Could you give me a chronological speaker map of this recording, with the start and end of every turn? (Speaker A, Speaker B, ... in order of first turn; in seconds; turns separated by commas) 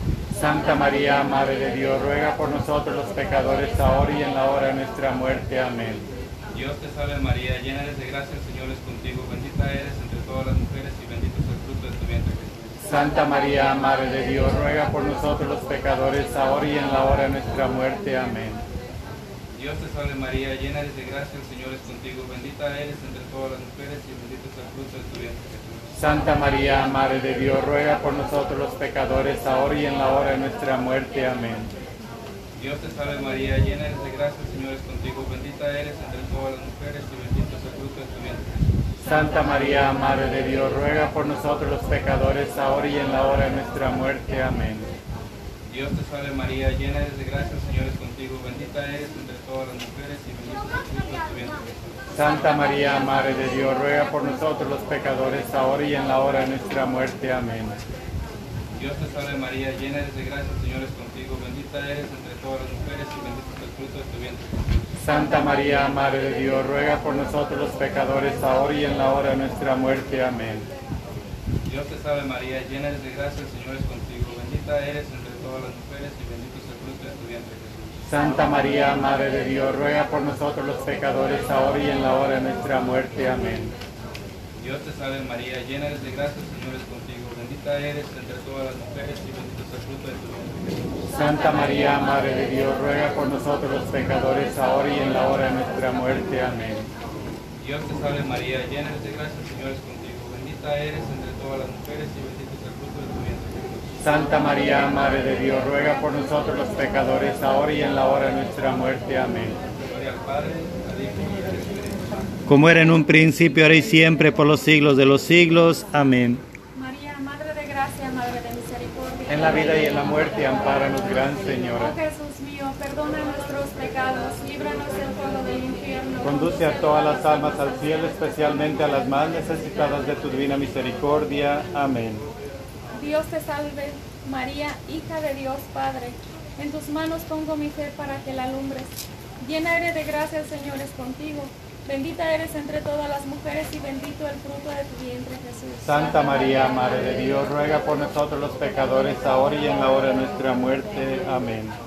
Speaker A: 0.3-6.0, Speaker B: 6.5-12.9, Speaker A: 12.8-18.6, Speaker B: 19.5-25.9, Speaker A: 25.9-31.7, Speaker B: 32.6-38.5, Speaker A: 39.0-44.9, Speaker B: 45.7-52.1, Speaker A: 52.1-57.8, Speaker B: 58.7-64.9, Speaker A: 65.0-70.7, Speaker B: 71.6-78.0, Speaker A: 78.0-83.7, Speaker B: 84.6-91.0, Speaker A: 91.1-96.9, Speaker B: 97.6-104.0, Speaker A: 104.0-109.6, Speaker B: 109.8-112.3, Speaker A: 112.5-116.4, Speaker C: 116.8-119.6, Speaker A: 119.3-121.9, Speaker C: 121.8-127.9, Speaker A: 126.2-132.3, Speaker C: 132.9-146.1, Speaker A: 145.8-151.8